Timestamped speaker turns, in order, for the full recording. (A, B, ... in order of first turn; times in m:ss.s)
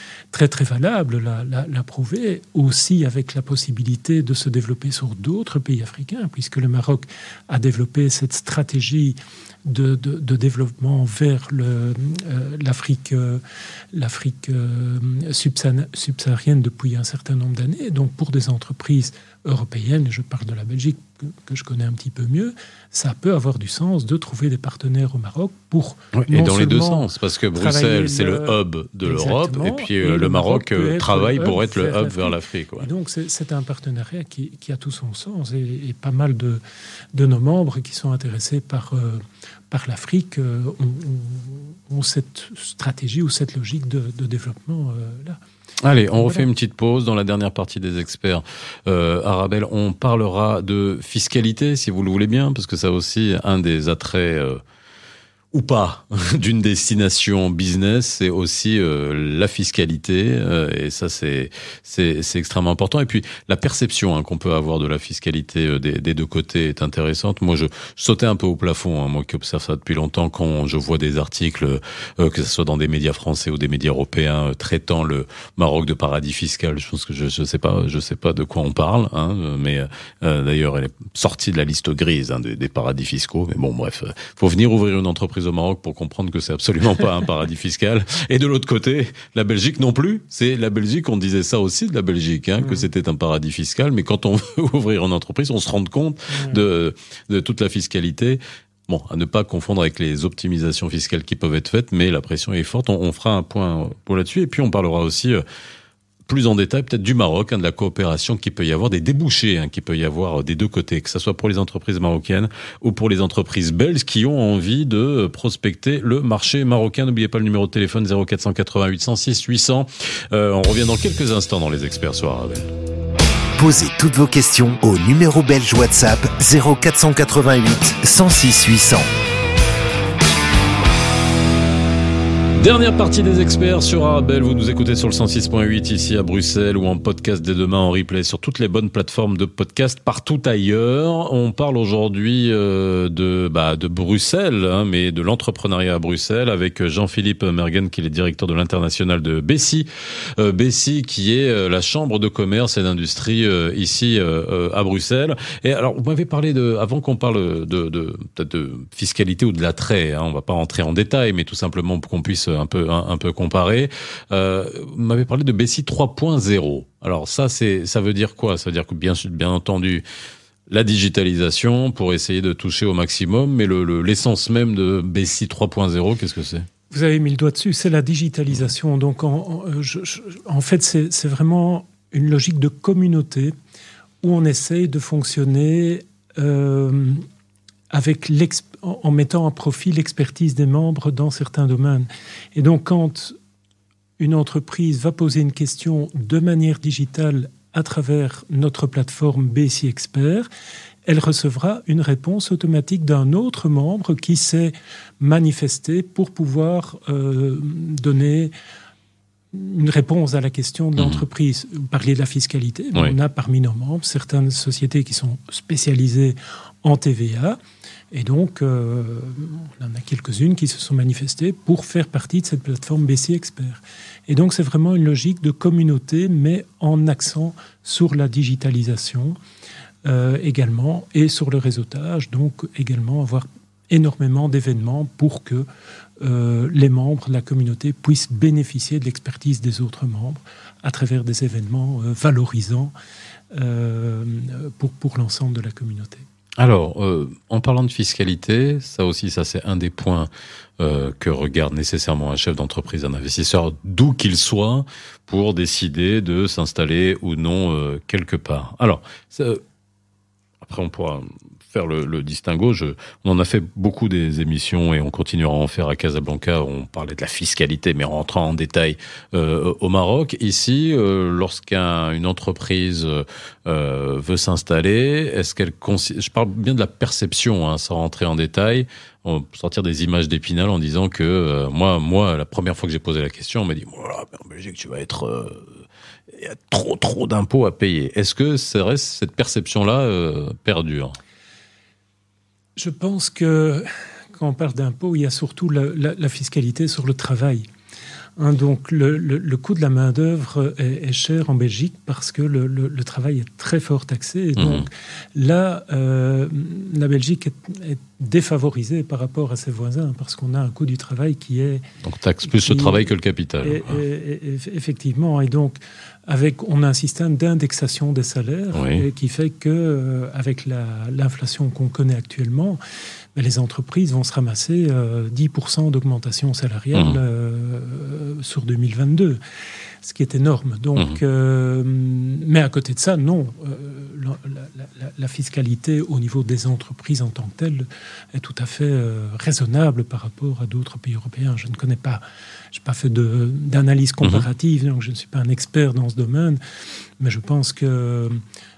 0:00.3-0:36.6 A
0:26.1-0:32.9 B
0:37.1-0:45.4 A
0:45.8-0:54.6 B
0:46.2-0:46.5 A
0:55.5-1:45.4 B
1:32.6-1:32.9 A
1:36.3-1:36.6 A
1:46.3-2:02.7 B
2:03.6-2:09.1 C
2:12.6-2:50.0 B
2:50.7-2:56.7 B
2:56.9-3:03.6 A
3:04.2-3:07.2 A
3:07.9-3:13.4 A
3:14.2-3:20.5 A
3:21.0-3:28.5 A
3:29.5-3:37.6 A
3:31.0-3:31.2 B
3:38.1-3:49.4 A
3:50.0-3:55.7 A
3:56.2-4:02.9 A
4:03.5-4:06.3 A
4:06.6-4:19.6 B
4:20.6-4:45.7 B
4:46.3-4:51.2 B
4:52.8-4:57.7 A
4:58.4-5:11.8 A
5:04.6-5:04.9 B
5:12.0-5:14.0 B
5:12.5-5:13.1 A
5:13.6-5:22.8 A
5:18.7-5:19.0 B
5:23.4-5:29.4 A
5:26.9-5:27.2 B
5:30.0-5:46.6 A
5:47.2-5:48.4 A